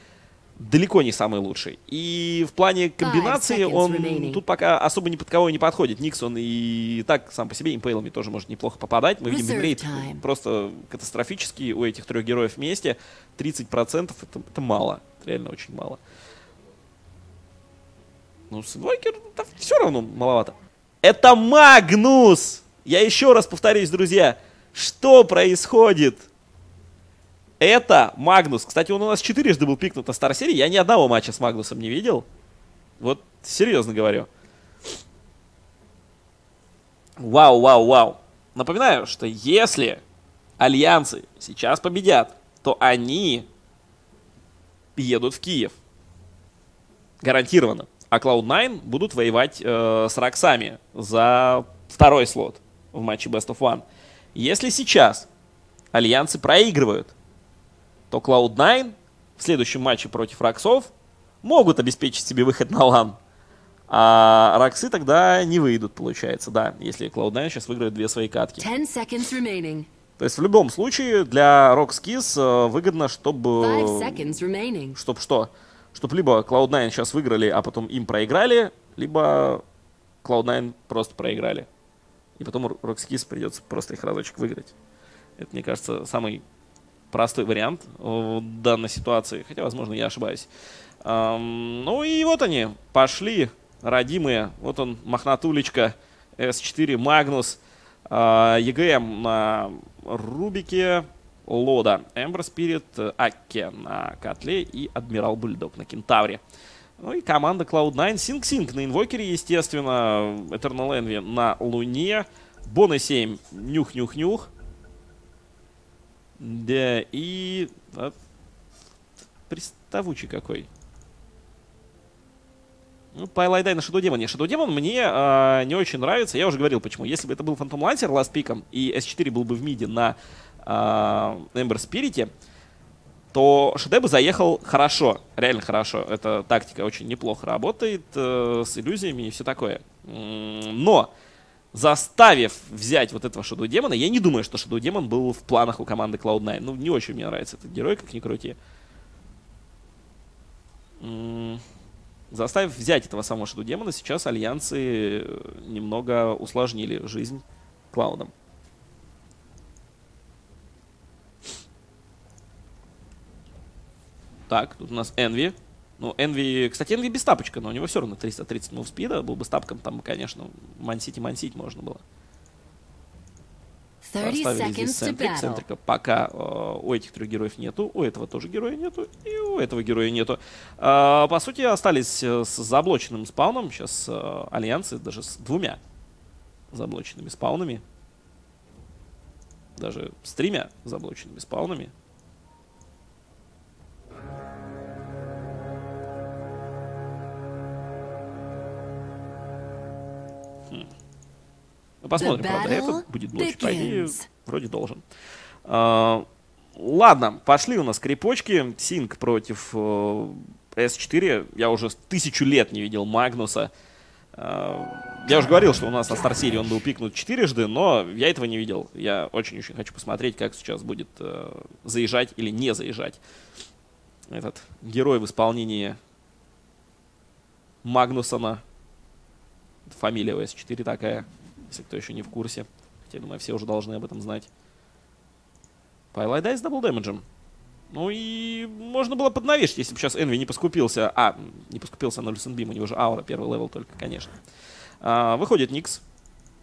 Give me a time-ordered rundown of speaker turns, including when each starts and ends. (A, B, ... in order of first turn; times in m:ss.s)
0:00.6-0:16.0 A
0:03.0-0:04.4 B
0:09.3-0:10.2 B
0:18.5-0:26.3 A
0:27.6-0:32.2 A
0:33.0-0:34.3 A
0:37.2-0:40.0 A
0:40.6-0:43.5 A
0:45.0-0:45.8 A
0:47.2-0:53.8 A
0:54.3-0:55.3 A
0:55.9-0:57.1 A
0:58.1-1:00.9 A
1:01.4-1:03.2 A
1:03.9-1:08.7 A
1:08.6-1:09.9 B
1:10.2-1:14.3 A
1:13.6-1:15.0 B
1:14.9-1:19.6 A
1:20.2-1:21.7 A
1:22.4-1:24.7 A
1:25.4-1:26.4 A
1:27.1-1:30.5 A
1:31.0-1:46.4 A
1:47.0-1:54.5 A
1:56.4-1:58.1 A
1:59.5-2:00.7 A
2:03.1-2:12.3 A
2:13.3-2:21.1 A
2:21.7-2:28.6 A
2:31.0-2:31.6 A
2:32.3-2:38.3 A
2:44.5-2:52.0 A
2:54.0-2:55.6 B
2:54.2-3:05.8 A
3:06.7-3:07.8 A
3:09.8-3:11.9 A
3:22.0-3:25.0 A
3:22.2-3:24.3 B
3:25.6-3:26.2 A
3:26.8-3:33.7 A
3:34.4-3:43.2 A
3:44.3-3:46.0 A
3:47.8-3:48.6 A
3:49.9-3:54.5 A
3:56.1-3:57.2 A
3:57.9-4:04.3 A
4:05.0-4:06.0 A